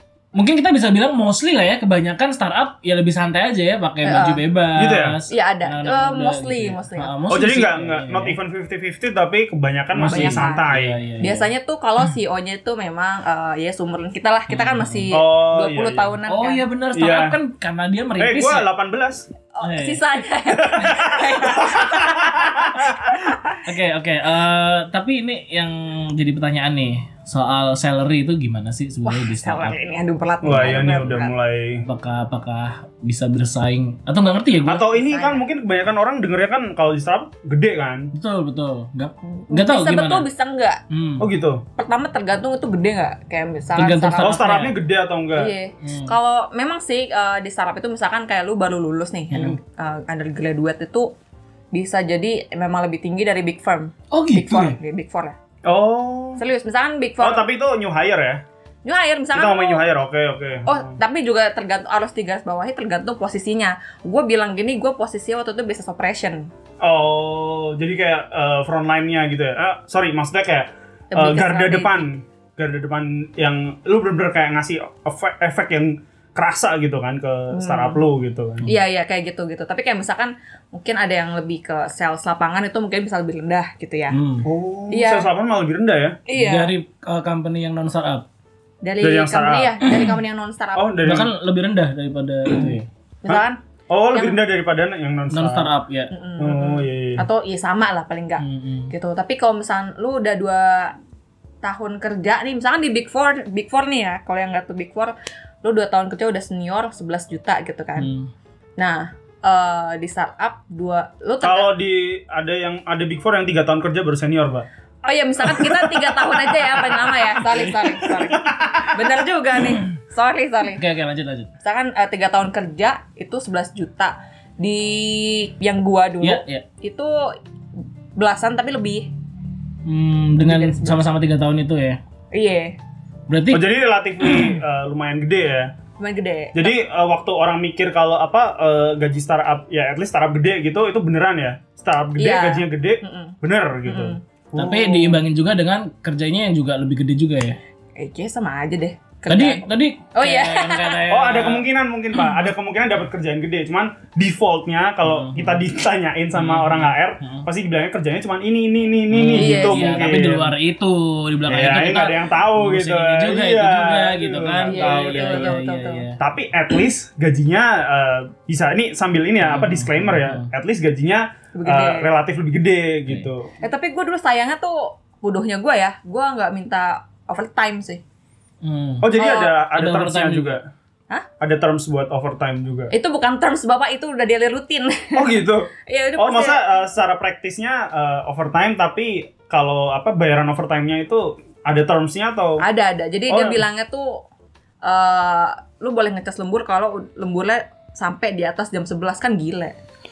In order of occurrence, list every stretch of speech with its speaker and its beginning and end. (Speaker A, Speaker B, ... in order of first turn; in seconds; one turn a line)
Speaker A: 0.3-8.3
Speaker B: 4.0-4.4
Speaker C: 4.8-5.2
Speaker B: 5.3-7.1
Speaker C: 7.3-11.0
Speaker A: 9.9-11.5
Speaker B: 10.1-16.6
Speaker A: 14.5-15.1
Speaker C: 15.1-16.1
Speaker A: 16.3-18.6
Speaker C: 16.9-17.4
Speaker C: 18.2-19.3
Speaker B: 19.5-23.6
Speaker A: 19.6-20.0
Speaker C: 20.6-23.2
Speaker A: 23.6-29.8
Speaker B: 29.0-31.3
Speaker C: 30.4-31.9
Speaker A: 31.9-34.9
Speaker C: 34.6-38.1
Speaker B: 34.7-35.4
Speaker A: 38.1-40.2
Speaker B: 39.3-40.8
Speaker A: 40.9-41.3
Speaker C: 41.2-41.6
Speaker B: 41.8-44.5
Speaker A: 43.8-44.8
Speaker C: 44.2-45.5
Speaker B: 45.4-51.1
Speaker A: 45.8-46.1
Speaker A: 49.3-49.6
Speaker B: 51.7-55.4
Speaker A: 54.1-54.8
Speaker C: 55.6-56.4
Speaker B: 56.4-57.5
Speaker C: 57.2-58.4
Speaker B: 58.8-59.9
Speaker C: 59.3-60.9
Speaker B: 60.6-66.5
Speaker C: 66.8-78.7
Speaker B: 71.1-72.1
Speaker B: 77.5-78.0
Speaker B: 78.7-84.2
Speaker A: 84.1-84.5
Speaker C: 84.4-86.2
Speaker B: 84.9-85.3
Speaker B: 86.3-86.7
Speaker A: 86.3-88.2
Speaker B: 88.8-91.1
Speaker C: 89.0-89.8
Speaker A: 89.8-90.2
Speaker C: 90.8-91.3
Speaker A: 91.0-92.9
Speaker B: 93.2-93.6
Speaker C: 93.3-95.7
Speaker B: 94.1-94.4
Speaker A: 95.3-96.1
Speaker B: 96.1-101.0
Speaker C: 96.4-97.2
Speaker A: 98.4-98.9
Speaker B: 101.6-108.1
Speaker A: 108.0-108.3
Speaker B: 108.8-111.7
Speaker C: 111.4-114.7
Speaker B: 115.0-120.8
Speaker C: 115.5-116.2
Speaker A: 117.5-118.2
Speaker C: 118.4-118.9
Speaker A: 120.7-121.5
Speaker B: 121.6-127.3
Speaker A: 126.2-126.6
Speaker B: 128.2-129.1
Speaker A: 129.8-132.0
Speaker B: 130.4-131.1
Speaker B: 132.3-132.8
Speaker A: 133.3-133.6
Speaker C: 133.5-135.7
Speaker B: 136.0-136.7
Speaker C: 136.5-145.2
Speaker B: 142.2-144.2
Speaker A: 144.5-147.6
Speaker B: 148.0-151.0
Speaker A: 149.3-151.7
Speaker C: 151.1-160.5
Speaker A: 155.1-155.6
Speaker A: 156.3-157.5
Speaker A: 159.1-166.2
Speaker B: 159.3-160.1
Speaker C: 161.4-165.6
Speaker B: 164.6-166.0
Speaker C: 166.2-173.5
Speaker A: 169.4-170.5
Speaker B: 171.5-172.1
Speaker B: 173.6-178.0
Speaker A: 178.6-179.1
Speaker C: 179.0-180.6
Speaker B: 179.2-179.6
Speaker A: 179.7-180.6
Speaker C: 181.4-182.9
Speaker B: 182.9-186.6
Speaker C: 185.1-192.6
Speaker B: 192.6-194.3
Speaker C: 193.3-193.6
Speaker B: 194.8-199.7